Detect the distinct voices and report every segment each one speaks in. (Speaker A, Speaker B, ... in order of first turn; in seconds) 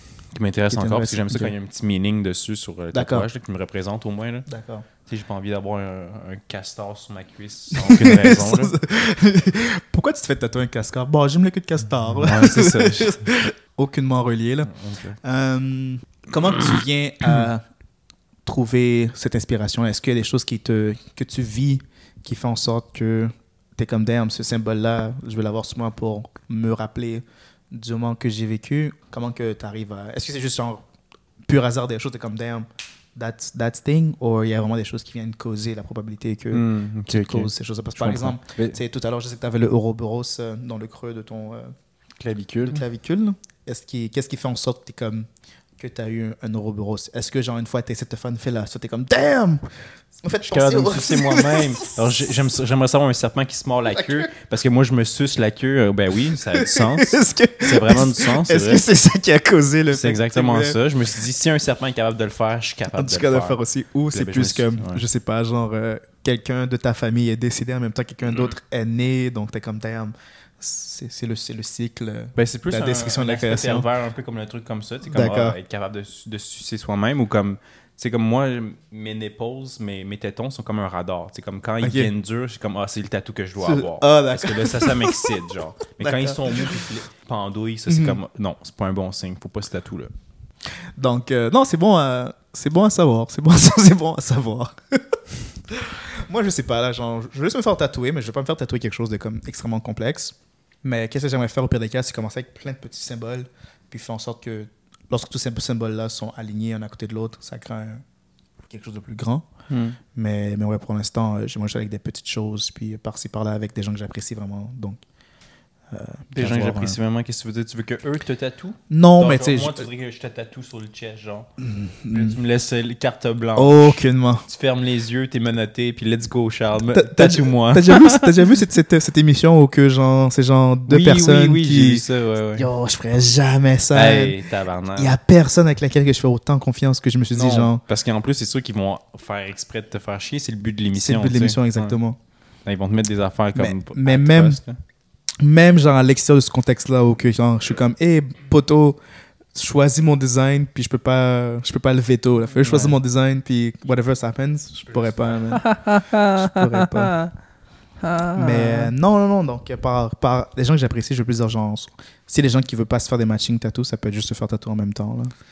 Speaker A: 0.3-4.5, 5.0-8.8, 12.1-13.3, 14.7-15.2, 36.5-38.8, 42.2-42.8, 50.4-58.8, 59.9-63.6, 64.1-65.0, 72.3-90.1, 109.7-110.0, 116.3-121.5, 122.1-128.2, 130.9-132.7, 133.9-135.2, 137.3-141.9, 142.7-144.8, 152.6-153.0, 155.1-157.3, 158.0-158.9
Speaker B: 0.7-1.5, 2.9-3.3, 4.5-4.9, 7.7-17.6, 18.4-30.8, 31.4-41.7, 42.6-45.3, 45.8-49.6, 50.2-52.3, 53.9-54.3, 56.5-60.8, 62.9-73.9, 75.1-75.6, 81.8-82.1, 83.6-85.4, 86.0-86.9, 87.9-88.2, 91.0-108.0, 108.7-109.5, 110.1-115.0, 115.9-117.0, 118.9-119.9, 121.6-122.4, 123.5-124.4, 126.9-132.0, 132.6-134.4, 135.0-137.8, 140.9-142.2, 143.5-144.6, 145.4-149.0, 149.5-157.2, 158.3-165.3